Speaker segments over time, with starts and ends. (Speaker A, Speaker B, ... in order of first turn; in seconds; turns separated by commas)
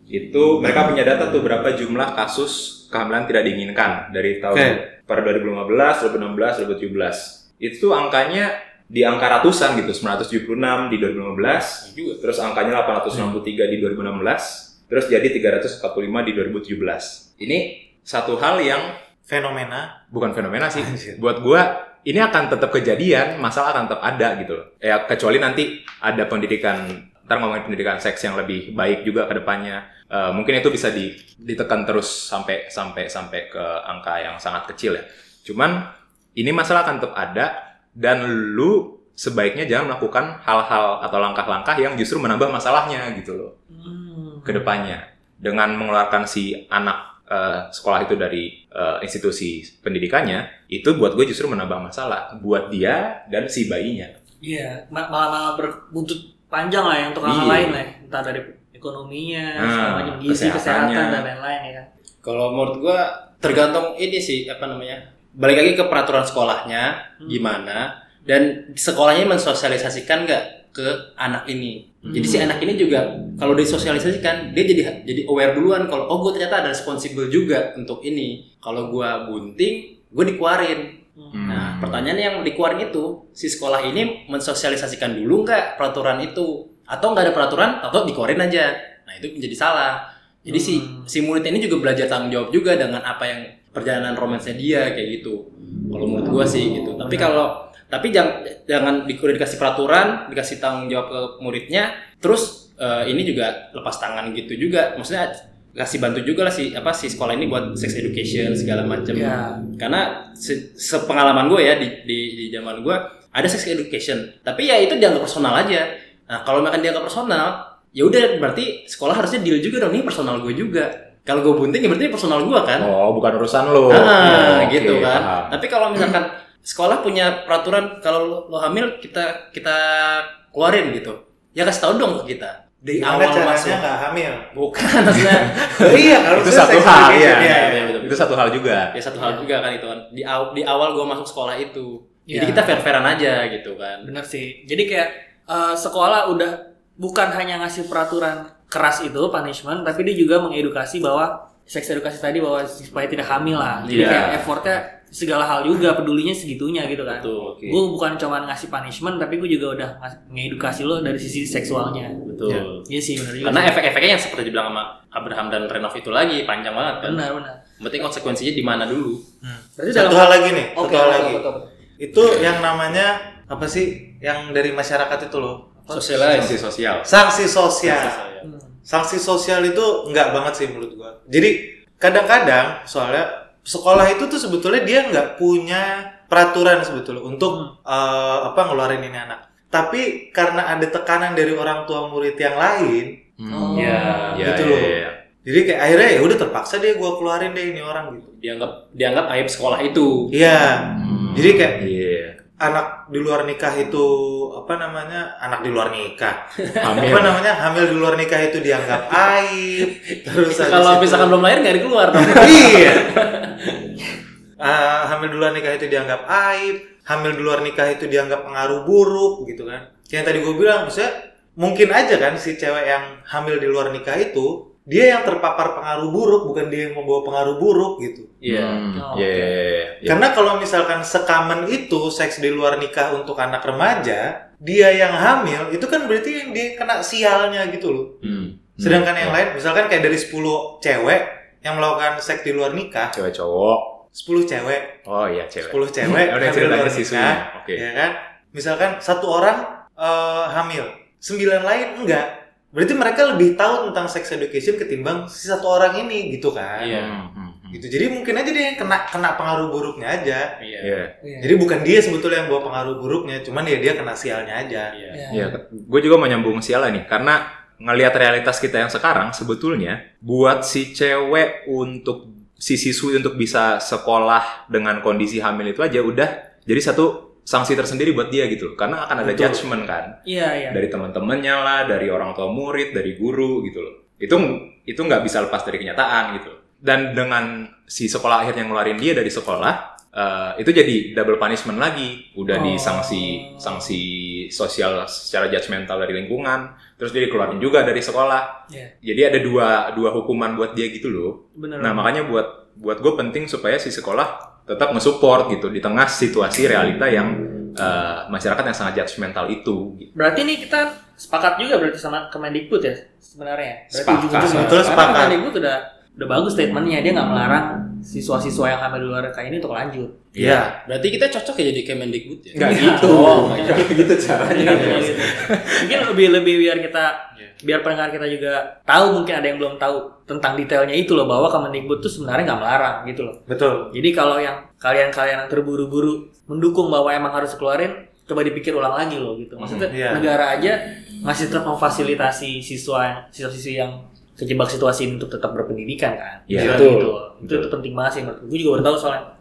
Speaker A: 0.1-18.9, Speaker B: 4.5-4.8, Speaker C: 11.6-12.2, Speaker B: 19.3-20.0, Speaker A: 20.1-43.5, Speaker B: 20.7-21.2, Speaker D: 43.7-44.8, Speaker A: 44.5-54.1, Speaker D: 54.4-61.9, Speaker A: 57.2-57.8, Speaker A: 59.6-61.3, Speaker C: 62.2-81.0, Speaker D: 67.2-67.5, Speaker D: 72.1-72.5, Speaker D: 81.2-81.6, Speaker A: 81.3-82.1, Speaker C: 81.5-122.9, Speaker D: 90.5-91.1, Speaker D: 97.1-97.4, Speaker D: 109.1-109.6, Speaker A: 122.8-125.6, Speaker C: 123.9-133.8, Speaker B: 132.8-134.5, Speaker C: 134.5-136.3, Speaker A: 135.2-138.9, Speaker B: 135.8-138.0, Speaker C: 137.1-138.3, Speaker C: 138.9-144.1, Speaker D: 139.2-139.5, Speaker D: 142.3-142.8, Speaker D: 144.0-162.2, Speaker C: 153.8-154.4, Speaker A: 153.9-154.5, Speaker C: 157.1-157.8, Speaker C: 162.3-162.9, Speaker D: 162.9-163.8, Speaker C: 163.4-167.2, Speaker D: 167.0-167.6, Speaker C: 167.8-169.2, Speaker B: 169.4-171.4, Speaker D: 169.8-171.7, Speaker B: 172.0-175.7, Speaker D: 175.8-176.3, Speaker C: 175.9-177.0, Speaker A: 176.3-177.1, Speaker B: 177.1-178.2, Speaker C: 177.8-178.5, Speaker D: 178.4-178.8, Speaker B: 178.9-193.2, Speaker D: 187.5-187.7, Speaker A: 193.4-195.2, Speaker D: 193.5-194.5, Speaker C: 193.7-194.5, Speaker B: 194.4-198.3, Speaker C: 198.4-200.3, Speaker B: 200.3-201.8, Speaker A: 201.0-202.4, Speaker B: 202.6-211.4, Speaker C: 206.6-207.1, Speaker A: 206.8-207.4, Speaker C: 209.9-213.8, Speaker B: 212.3-213.2, Speaker B: 214.6-228.3, Speaker C: 228.4-229.0, Speaker A: 228.5-230.2, Speaker D: 229.0-229.4, Speaker B: 230.1-243.2, Speaker A: 238.2-239.4, Speaker A: 243.2-244.0, Speaker B: 244.1-245.0, Speaker A: 245.1-247.8, Speaker B: 245.6-257.0, Speaker C: 256.8-257.2, Speaker A: 256.9-257.8, Speaker B: 257.7-260.5, Speaker C: 260.6-261.0, Speaker A: 260.8-261.1, Speaker D: 261.2-261.6, Speaker B: 261.4-264.9, Speaker C: 264.9-265.2, Speaker D: 265.1-265.6, Speaker A: 265.3-280.2, Speaker B: 279.2-279.6, Speaker D: 280.2-280.8, Speaker A: 280.7-310.1, Speaker D: 292.5-294.0, Speaker D: 298.7-298.9, Speaker D: 301.6-302.1, Speaker D: 310.1-320.2, Speaker A: 313.9-315.2, Speaker B: 314.4-315.4, Speaker A: 320.4-320.8, Speaker B: 320.4-320.7, Speaker C: 320.9-325.5, Speaker A: 322.6-326.1, Speaker D: 322.6-323.8, Speaker D: 324.5-333.4, Speaker B: 333.5-333.9, Speaker D: 333.9-349.3, Speaker A: 339.6-339.9, Speaker B: 339.9-340.3, Speaker A: 346.5-347.7, Speaker C: 346.6-347.1